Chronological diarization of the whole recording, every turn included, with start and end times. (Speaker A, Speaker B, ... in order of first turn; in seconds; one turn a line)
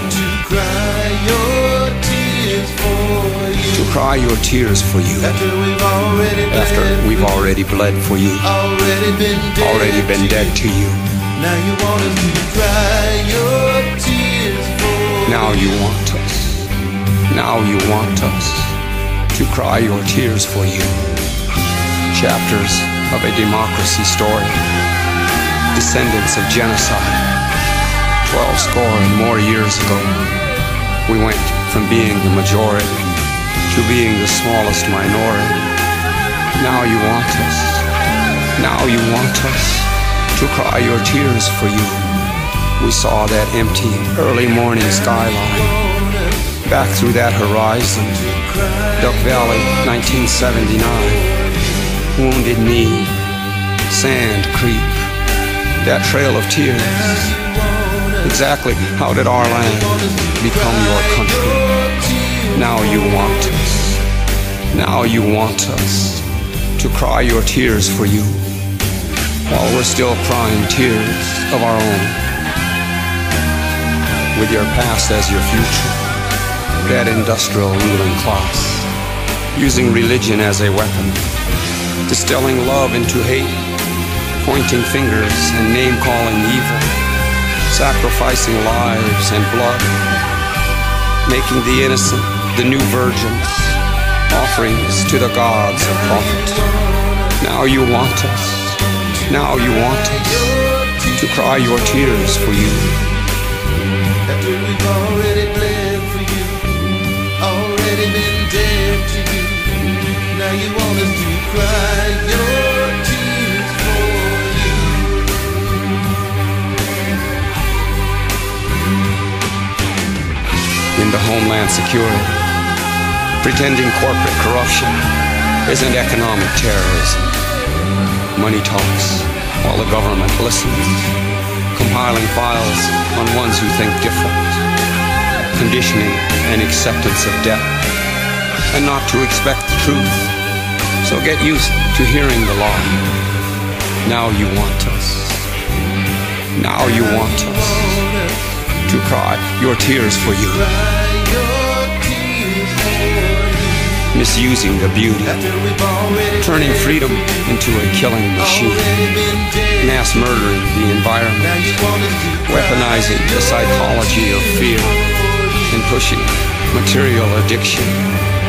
Speaker A: 0.3-3.5
Speaker B: 3.6-5.5
Speaker A: 5.7-6.2
Speaker B: 6.4-8.6
Speaker A: 8.7-9.4
Speaker B: 9.4-11.2
Speaker A: 11.5-15.1
Speaker B: 15.2-16.7
Speaker B: 17.3-18.8
Speaker B: 19.3-21.1
Speaker B: 22.1-24.7
Speaker B: 25.7-27.3
Speaker B: 28.2-30.3
Speaker B: 31.0-33.1
Speaker B: 33.7-35.7
Speaker B: 36.5-37.9
Speaker B: 38.5-42.2
Speaker B: 42.8-53.2
Speaker B: 53.9-55.1
Speaker B: 55.8-64.0
Speaker B: 64.7-68.6
Speaker B: 69.5-72.3
Speaker B: 74.3-76.1
Speaker B: 76.8-79.0
Speaker B: 79.5-81.3
Speaker B: 82.0-83.7
Speaker B: 84.4-87.0
Speaker B: 87.7-90.0
Speaker B: 91.2-103.2
Speaker A: 104.4-106.7
Speaker A: 107.4-109.7
Speaker A: 110.3-114.9
Speaker B: 120.9-122.5
Speaker B: 123.4-127.3
Speaker B: 128.3-131.2
Speaker B: 131.7-134.6
Speaker B: 135.5-137.8
Speaker B: 138.7-140.3
Speaker B: 141.0-143.1
Speaker B: 144.0-145.5
Speaker B: 146.5-151.0
Speaker A: 151.0-153.7
Speaker B: 154.0-155.6
Speaker B: 156.3-168.1